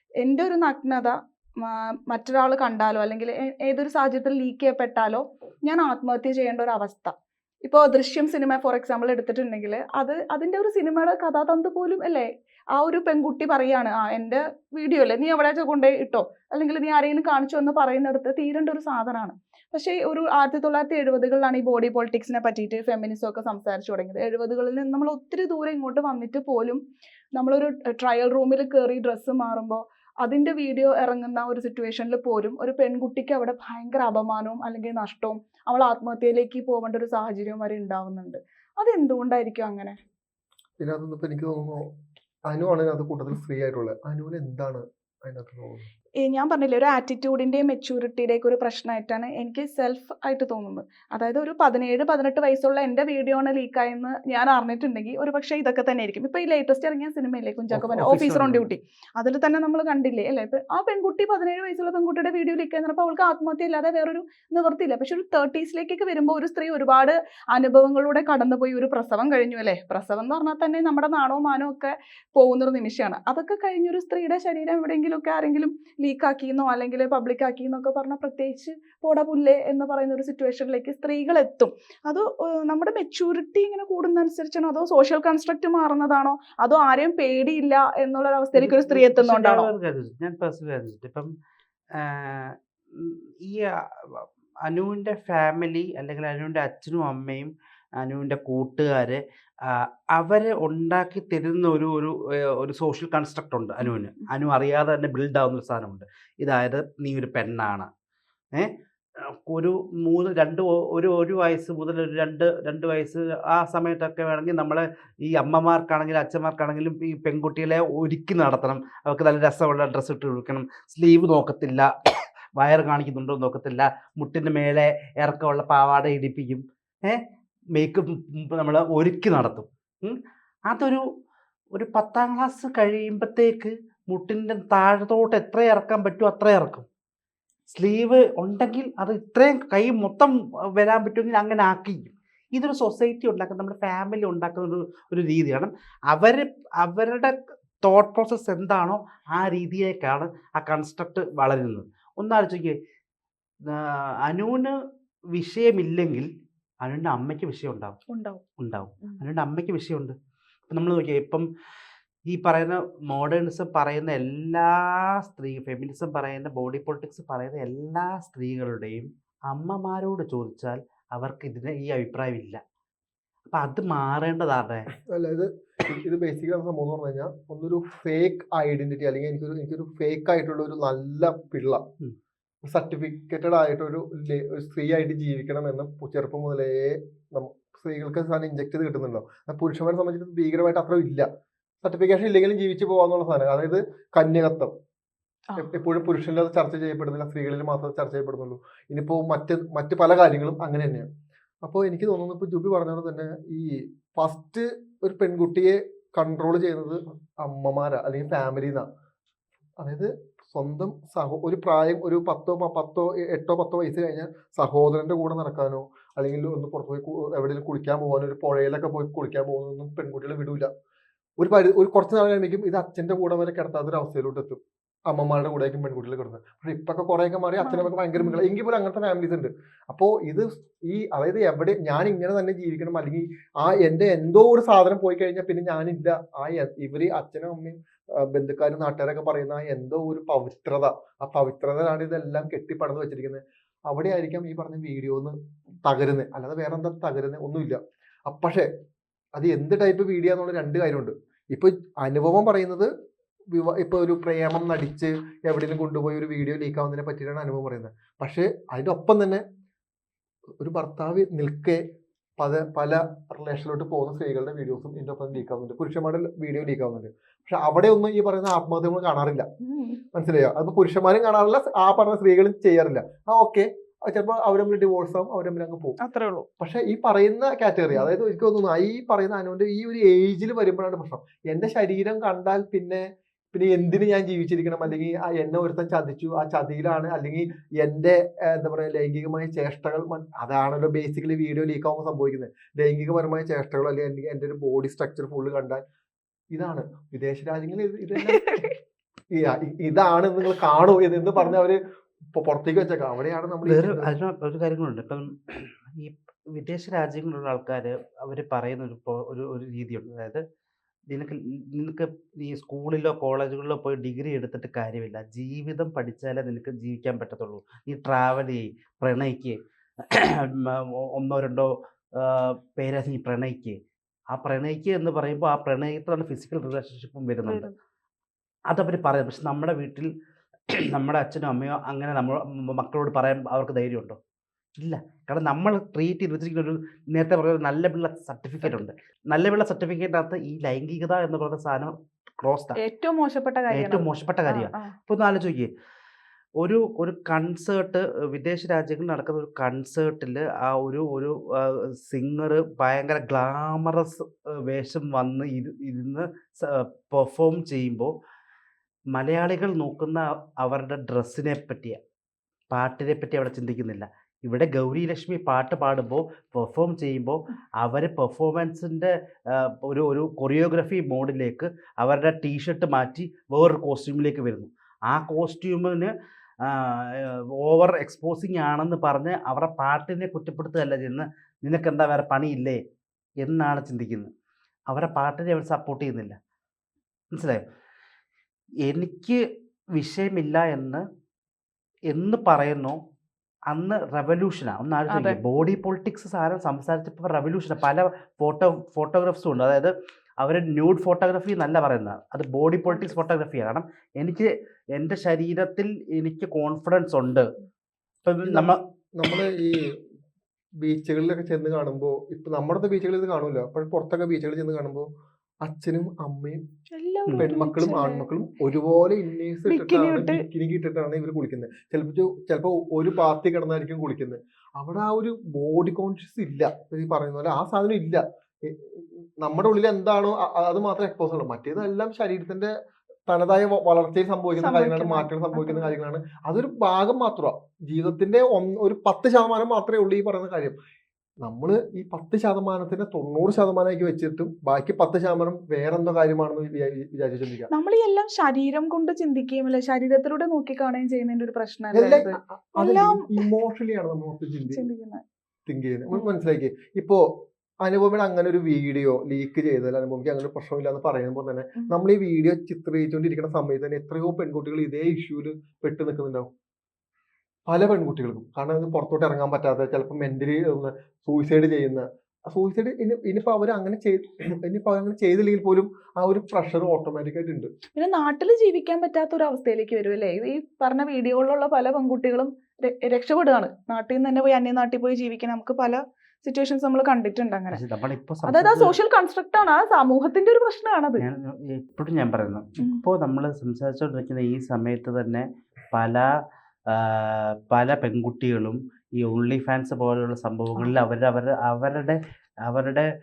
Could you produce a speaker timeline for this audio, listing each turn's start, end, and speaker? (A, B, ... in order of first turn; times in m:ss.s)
0:00.2-0:07.1 A
0:07.6-0:26.8 A
0:27.3-0:40.0 A
0:40.8-0:41.9 B
0:42.5-0:45.9 B
0:46.2-1:29.7 A
0:57.8-0:58.4 B
0:57.8-0:58.6 C
1:28.5-1:31.3 C
1:32.0-1:47.9 C
1:48.5-2:01.9 C
2:02.6-2:07.2 C
2:07.7-2:11.0 C
2:11.7-2:16.8 C
2:17.7-2:32.8 C
2:33.7-2:34.7 C
2:35.3-2:36.3 C
2:36.8-2:38.0 C
2:38.1-2:38.4 A
2:38.6-2:40.1 C
2:40.7-2:41.4 C
2:42.3-2:52.6 C
2:53.5-2:54.9 C
2:55.1-3:01.8 B
3:02.6-3:11.2 B
3:11.8-3:14.7 B
3:15.6-3:21.0 B
3:21.6-3:28.8 B
3:29.8-3:40.7 B
3:41.4-3:44.6 B
3:45.1-4:08.7 B
3:47.6-3:48.4 A
4:09.3-4:12.9 B
4:13.5-4:19.4 B
4:20.6-4:21.8 B
4:22.4-4:29.4 B
4:29.6-4:30.0 A
4:30.1-4:36.0 B
4:36.0-4:36.5 A
4:36.6-4:43.0 B
4:43.5-4:55.8 B
4:56.5-4:58.6 B
4:58.4-4:58.7 A
4:59.3-5:01.8 B
5:02.3-5:04.1 B
5:03.6-5:10.4 C
5:11.1-5:19.6 C
5:20.1-5:23.8 C
5:24.3-5:27.7 C
5:27.4-5:27.8 A
5:28.7-5:30.1 C
5:30.7-5:34.2 C
5:34.8-5:42.8 C
5:42.8-5:44.9 A
5:43.7-5:45.7 C
5:46.6-5:58.1 C
5:59.1-6:02.0 C
6:02.7-6:16.1 C
6:16.6-6:22.8 C
6:23.4-6:24.3 C
6:24.9-6:26.3 C
6:27.3-6:27.6 C
6:28.8-6:29.4 C
6:30.0-6:31.0 C
6:32.1-6:33.0 C
6:33.7-6:47.4 C
6:35.1-6:35.4 A
6:42.9-6:43.2 A
6:48.2-6:48.8 C
6:48.4-6:49.8 B
6:50.8-6:55.1 B
6:55.6-6:56.6 B
6:56.9-6:58.2 A
6:57.4-7:12.7 B
6:59.7-7:00.4 A
7:13.3-7:20.8 B
7:14.6-7:15.9 A
7:21.4-7:27.7 B
7:27.7-7:33.4 A
7:31.9-7:34.8 B
7:34.7-7:35.2 A
7:35.7-7:37.2 B
7:37.8-7:46.5 B
7:47.7-7:57.7 B
7:57.9-8:07.8 A
8:07.7-8:09.0 C
8:08.4-8:11.2 A
8:11.2-8:16.3 C
8:16.9-8:23.1 C
8:20.8-8:21.0 A